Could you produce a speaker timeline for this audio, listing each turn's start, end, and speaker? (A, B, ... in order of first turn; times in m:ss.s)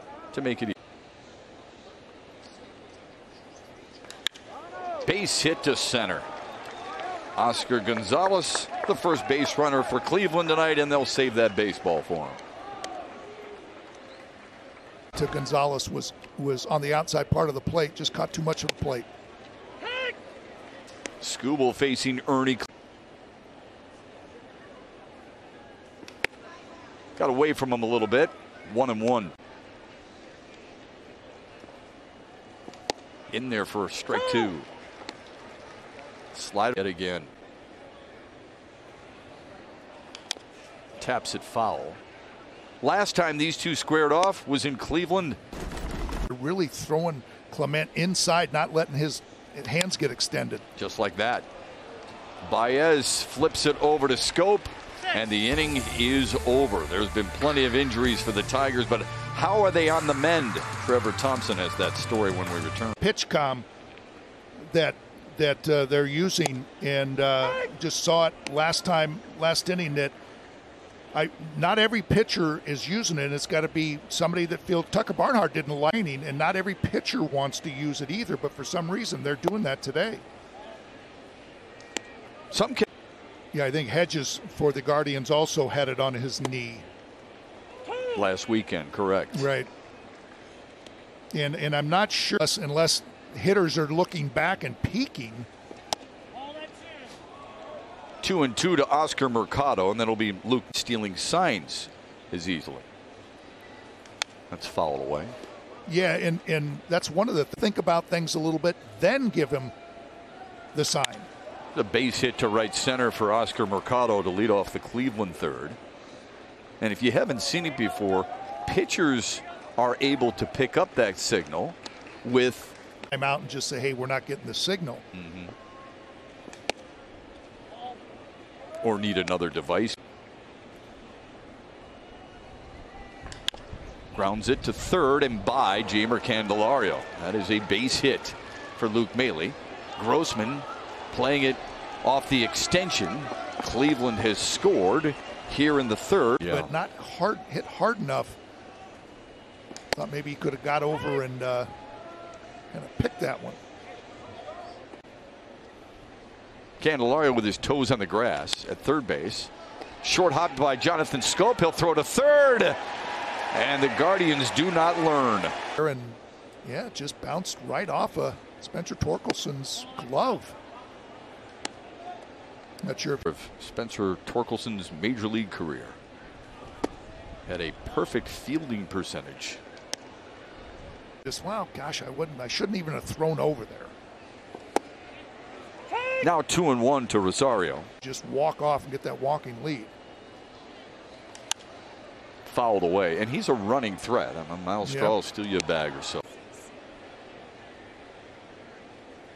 0:00.3-0:00.7 A
0:05.0-0:06.3 A
0:07.4-0:12.4 A
0:15.2-0:19.1 B
0:21.2-0:22.7 A
0:27.2-0:29.3 A
0:33.3-0:34.7 A
0:36.3-0:37.3 A
0:41.0-0:42.0 A
0:42.8-0:45.4 A
0:46.3-0:50.6 B
0:50.8-0:51.4 A
0:52.4-1:03.0 A
1:03.0-1:03.6 B
1:04.6-1:10.1 B
1:11.1-1:20.2 B
1:22.5-1:22.9 A
1:23.5-1:26.9 B
1:28.1-1:29.5 A
1:29.3-1:29.7 B
1:31.3-1:35.5 B
1:38.2-1:42.8 A
1:44.5-1:45.3 A
1:45.9-1:49.7 B
1:50.7-1:51.3 B
1:51.7-1:55.8 A
1:56.8-2:02.7 A
2:03.1-2:05.0 B
2:05.1-2:05.5 A
2:08.8-2:10.0 A
2:14.1-2:26.7 A
2:26.5-2:28.4 B
2:29.9-2:31.7 B
2:32.7-2:33.6 B
2:36.8-2:39.5 A
2:40.0-2:42.8 A
2:43.5-2:45.6 A
2:45.8-2:50.6 B
2:52.8-2:53.2 B
2:53.2-2:56.0 A
2:57.5-2:59.6 A
3:01.2-3:03.9 B
3:06.2-3:07.9 A
3:08.0-3:09.9 B
3:12.4-3:16.2 A
3:14.8-3:15.2 B